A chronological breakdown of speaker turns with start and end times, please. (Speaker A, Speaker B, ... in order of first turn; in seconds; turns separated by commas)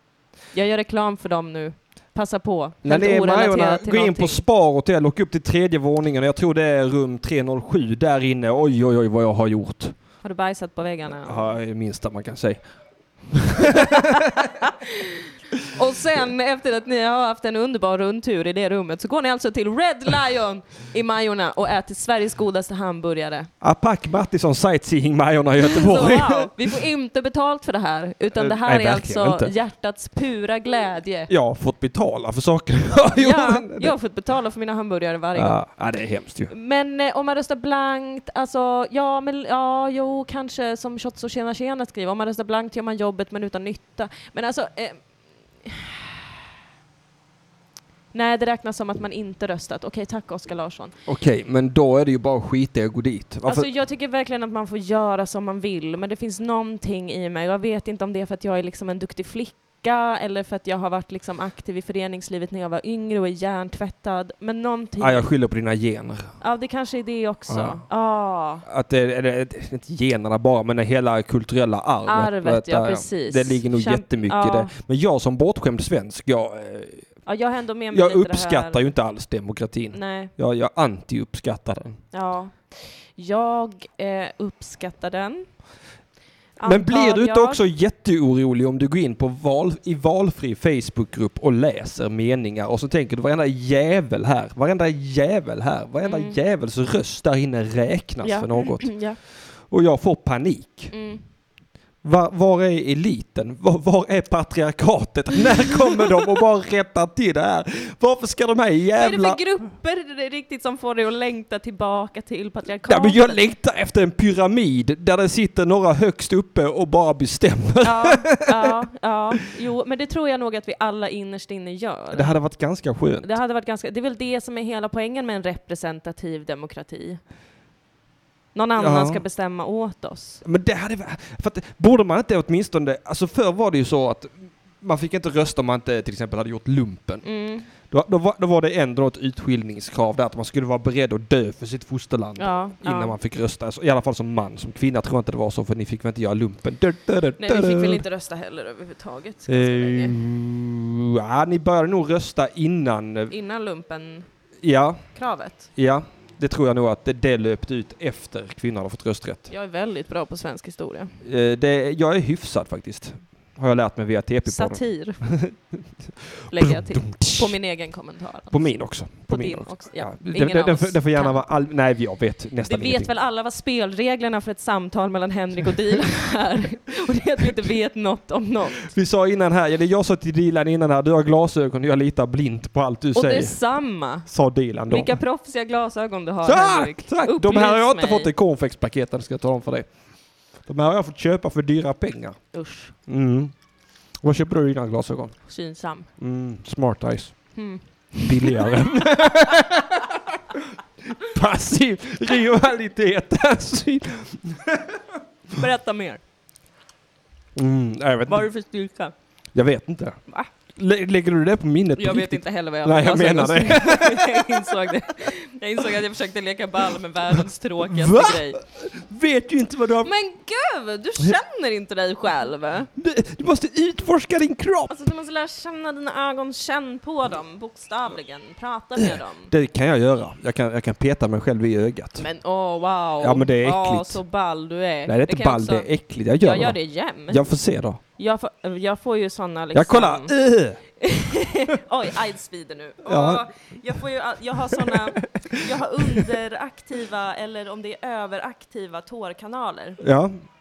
Speaker A: 0.5-4.4, Speaker B: 2.8-10.0, Speaker A: 10.2-11.5, Speaker B: 11.1-12.6, Speaker B: 13.3-14.3, Speaker A: 15.8-23.5, Speaker B: 23.6-26.7, Speaker A: 25.6-31.3, Speaker B: 28.3-29.5, Speaker B: 31.3-34.0, Speaker A: 33.2-35.7, Speaker B: 35.4-36.5, Speaker A: 36.5-46.1, Speaker A: 48.1-50.9, Speaker B: 51.1-53.7, Speaker A: 53.5-65.3, Speaker B: 65.0-66.3, Speaker A: 66.4-68.7, Speaker B: 67.5-67.8, Speaker B: 68.7-77.1, Speaker A: 72.1-74.8, Speaker A: 77.3-78.9, Speaker B: 77.9-82.0, Speaker A: 79.9-80.3, Speaker A: 82.1-85.5, Speaker A: 86.6-87.6, Speaker B: 86.6-100.9, Speaker A: 96.0-96.4, Speaker A: 98.2-99.2, Speaker A: 100.9-101.2, Speaker B: 102.0-109.4, Speaker A: 109.0-113.4, Speaker B: 112.8-118.8, Speaker A: 117.8-122.4, Speaker B: 122.1-123.3, Speaker A: 123.2-127.2, Speaker A: 128.6-130.4, Speaker B: 128.8-129.2, Speaker B: 130.4-137.2, Speaker A: 137.2-137.7, Speaker B: 137.8-148.0, Speaker A: 142.4-143.2, Speaker A: 147.4-150.1, Speaker B: 149.5-153.3, Speaker A: 153.3-154.3, Speaker B: 154.6-155.1, Speaker A: 155.2-155.7, Speaker B: 155.7-159.5, Speaker A: 159.5-161.1, Speaker B: 161.2-167.6, Speaker A: 164.4-165.2, Speaker A: 166.5-171.4, Speaker B: 168.5-173.1, Speaker A: 172.7-178.8, Speaker B: 178.8-183.6, Speaker A: 183.1-184.3, Speaker B: 184.3-185.2, Speaker A: 184.9-188.3, Speaker B: 186.4-189.9, Speaker B: 190.7-192.4, Speaker A: 192.5-192.9, Speaker B: 193.1-193.5, Speaker B: 194.2-195.4, Speaker A: 195.4-196.1, Speaker B: 196.2-197.6, Speaker A: 197.5-198.6, Speaker B: 198.3-200.1, Speaker B: 201.2-204.9, Speaker A: 205.6-206.2, Speaker B: 207.6-208.5, Speaker A: 208.3-209.1, Speaker B: 209.5-210.2, Speaker B: 210.7-214.5, Speaker A: 212.0-218.6, Speaker B: 217.8-220.1, Speaker A: 220.0-222.9, Speaker B: 223.0-224.9, Speaker A: 224.9-229.5, Speaker B: 229.0-232.2, Speaker A: 232.2-237.5, Speaker B: 233.2-234.2, Speaker B: 235.1-238.0, Speaker A: 238.2-240.3, Speaker B: 239.7-240.8, Speaker A: 241.0-250.0, Speaker B: 243.0-243.5, Speaker B: 244.8-246.2, Speaker B: 250.0-250.4